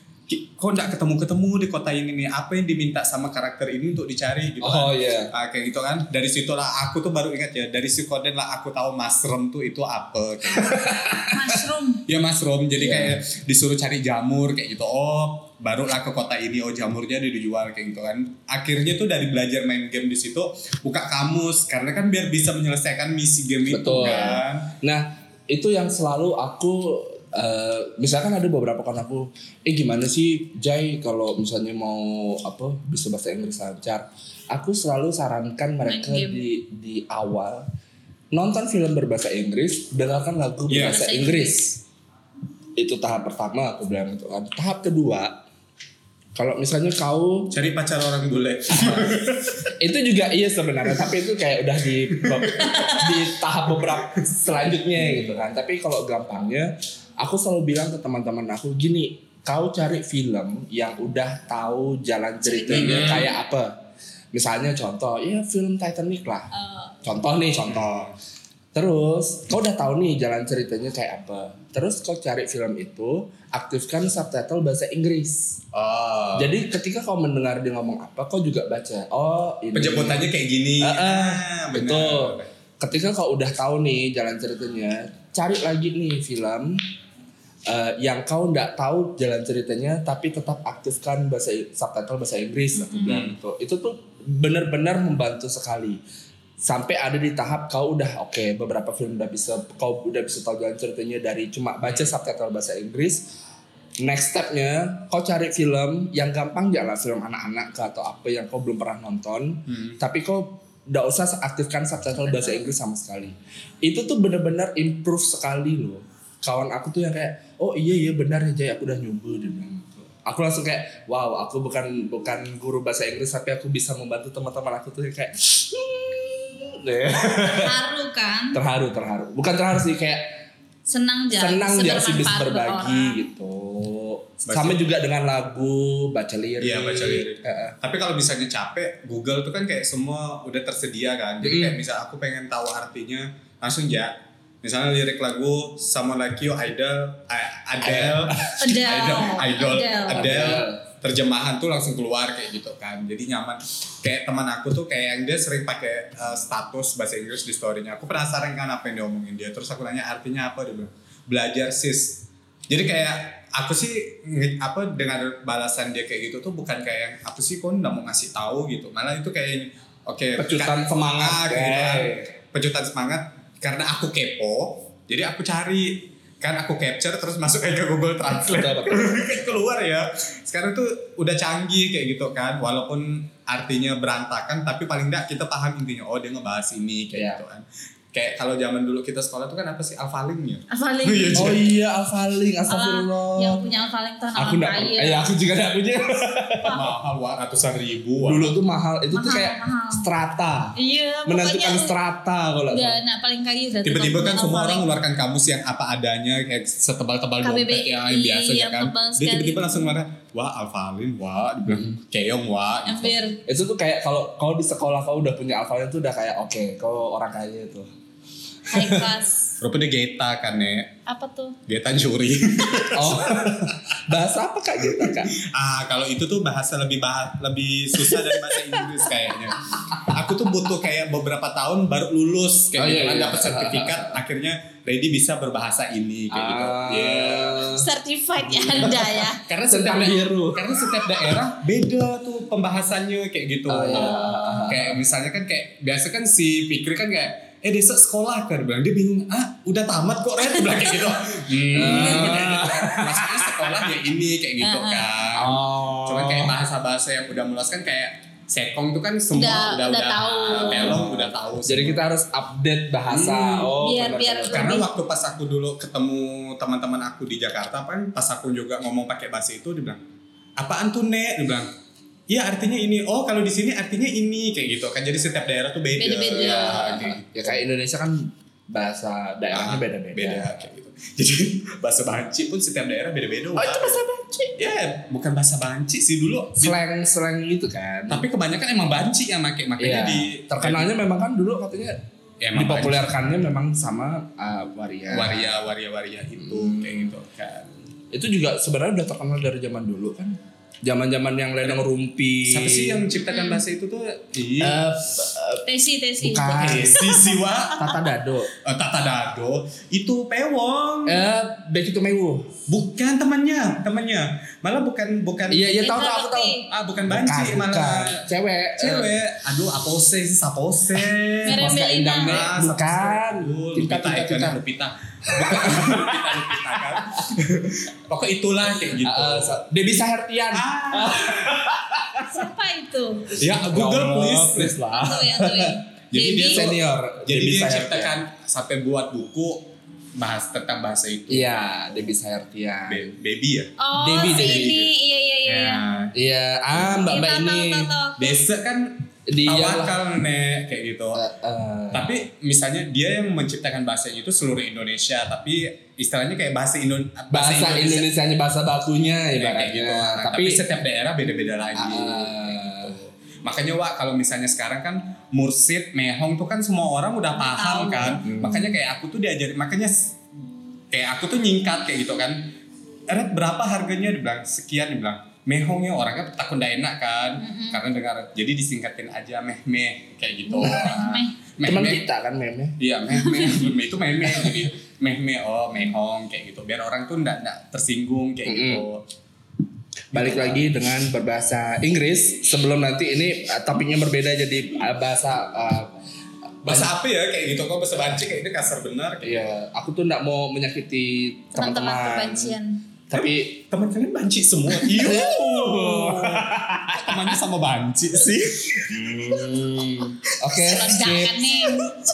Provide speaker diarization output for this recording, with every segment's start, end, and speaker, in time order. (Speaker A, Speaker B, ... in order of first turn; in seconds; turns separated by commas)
Speaker A: 0.3-11.2, Speaker B: 4.6-5.3, Speaker B: 10.5-11.6, Speaker C: 11.3-12.0, Speaker A: 12.1-24.7, Speaker B: 12.8-13.2, Speaker B: 23.7-37.7, Speaker C: 35.8-36.4, Speaker B: 38.3-41.8, Speaker A: 40.7-41.1, Speaker C: 40.8-41.7, Speaker B: 42.8-45.5, Speaker B: 46.4-47.6, Speaker A: 47.5-49.7, Speaker B: 48.7-49.2, Speaker B: 49.8-63.8, Speaker A: 52.1-52.8, Speaker A: 55.0-55.4, Speaker C: 62.5-63.3, Speaker A: 62.7-63.3, Speaker B: 64.3-66.5, Speaker C: 66.5-67.0, Speaker B: 67.0-68.0, Speaker A: 67.7-68.2, Speaker B: 68.7-75.6, Speaker A: 75.7-76.6, Speaker B: 76.4-80.3, Speaker A: 79.7-82.5, Speaker B: 80.8-86.8, Speaker B: 87.7-96.0, Speaker A: 93.0-93.4, Speaker B: 96.6-103.3, Speaker A: 101.8-102.1, Speaker B: 104.0-127.8, Speaker A: 109.7-110.0, Speaker C: 112.2-112.7, Speaker C: 127.5-128.6, Speaker B: 128.5-130.4, Speaker C: 130.9-133.3, Speaker B: 131.3-137.8, Speaker A: 134.5-134.8, Speaker A: 136.6-191.7, Speaker B: 141.4-141.8, Speaker B: 147.8-148.7, Speaker C: 148.6-150.3, Speaker B: 150.1-150.8, Speaker B: 170.4-172.3, Speaker B: 178.3-179.6, Speaker B: 187.1-187.4, Speaker C: 190.7-191.6, Speaker B: 191.3-193.6, Speaker C: 192.7-195.3, Speaker B: 194.4-196.8, Speaker C: 196.6-196.9, Speaker A: 196.7-198.6, Speaker B: 198.2-203.0, Speaker C: 199.1-200.1, Speaker C: 200.8-202.0, Speaker C: 202.7-204.9, Speaker A: 203.8-213.2, Speaker C: 207.4-209.9, Speaker C: 212.9-213.4, Speaker B: 213.4-217.9, Speaker B: 218.7-219.1, Speaker C: 218.7-219.6, Speaker A: 219.6-220.9, Speaker C: 221.1-221.6, Speaker A: 221.7-223.9, Speaker B: 222.9-225.4, Speaker A: 224.9-237.7, Speaker B: 232.8-234.2, Speaker B: 236.3-237.9, Speaker C: 237.7-239.4, Speaker B: 238.4-239.2, Speaker A: 238.8-262.0, Speaker B: 239.7-241.3, Speaker B: 243.7-245.0, Speaker C: 243.9-244.7, Speaker C: 250.5-251.2, Speaker B: 251.7-253.8, Speaker C: 251.9-252.6, Speaker C: 254.6-255.1, Speaker B: 255.3-256.6, Speaker C: 259.3-261.0, Speaker B: 260.5-264.8, Speaker A: 263.1-263.8, Speaker C: 263.8-264.9, Speaker A: 264.5-270.0, Speaker A: 270.6-271.7, Speaker A: 272.3-277.6, Speaker C: 276.0-277.0, Speaker B: 276.3-280.5, Speaker A: 279.5-284.0, Speaker B: 283.6-284.6, Speaker A: 284.6-286.8, Speaker B: 286.6-288.2, Speaker A: 288.1-290.9, Speaker B: 289.8-292.0, Speaker A: 292.4-293.1, Speaker B: 292.5-295.5, Speaker A: 295.1-297.8, Speaker B: 296.4-297.1, Speaker B: 298.1-303.1, Speaker A: 302.5-304.8, Speaker C: 303.2-303.6, Speaker B: 304.6-305.6, Speaker C: 305.7-307.6, Speaker B: 306.2-307.1, Speaker A: 306.5-307.9, Speaker B: 307.8-308.5, Speaker A: 308.6-311.2, Speaker B: 311.1-312.6, Speaker A: 312.7-315.7, Speaker B: 315.5-319.1, Speaker C: 315.8-316.7, Speaker A: 316.7-318.2, Speaker A: 318.8-329.6, Speaker C: 321.4-322.4, Speaker B: 321.6-324.6, Speaker B: 325.3-327.2, Speaker B: 328.9-332.4, Speaker A: 330.5-331.8, Speaker C: 332.3-333.4, Speaker A: 333.4-334.8, Speaker B: 333.6-335.8, Speaker C: 334.9-336.8, Speaker A: 336.1-341.6, Speaker B: 336.4-338.2, Speaker B: 341.3-343.2, Speaker A: 342.9-343.7, Speaker C: 343.8-346.1, Speaker B: 343.9-344.8, Speaker A: 344.3-344.9, Speaker A: 345.4-346.1, Speaker B: 346.1-347.9, Speaker C: 346.8-348.4, Speaker A: 348.2-351.2, Speaker B: 349.3-350.0, Speaker B: 351.1-352.1, Speaker A: 351.9-358.1, Speaker B: 357.3-360.6, Speaker A: 359.4-370.2, Speaker B: 361.7-363.0, Speaker C: 367.4-368.2, Speaker B: 368.2-368.8, Speaker A: 370.9-372.6, Speaker A: 373.1-382.0, Speaker C: 377.4-377.8, Speaker C: 380.5-381.4, Speaker B: 380.6-381.0, Speaker B: 381.6-382.8, Speaker A: 382.8-389.0, Speaker C: 383.2-383.6, Speaker B: 388.4-388.9, Speaker B: 390.1-395.9, Speaker A: 390.1-390.7, Speaker B: 396.6-396.9, Speaker A: 396.6-399.5, Speaker B: 399.2-402.6, Speaker C: 401.6-402.8, Speaker B: 403.1-403.6, Speaker A: 403.1-409.7, Speaker B: 404.7-407.4, Speaker B: 408.9-411.6, Speaker C: 410.5-411.9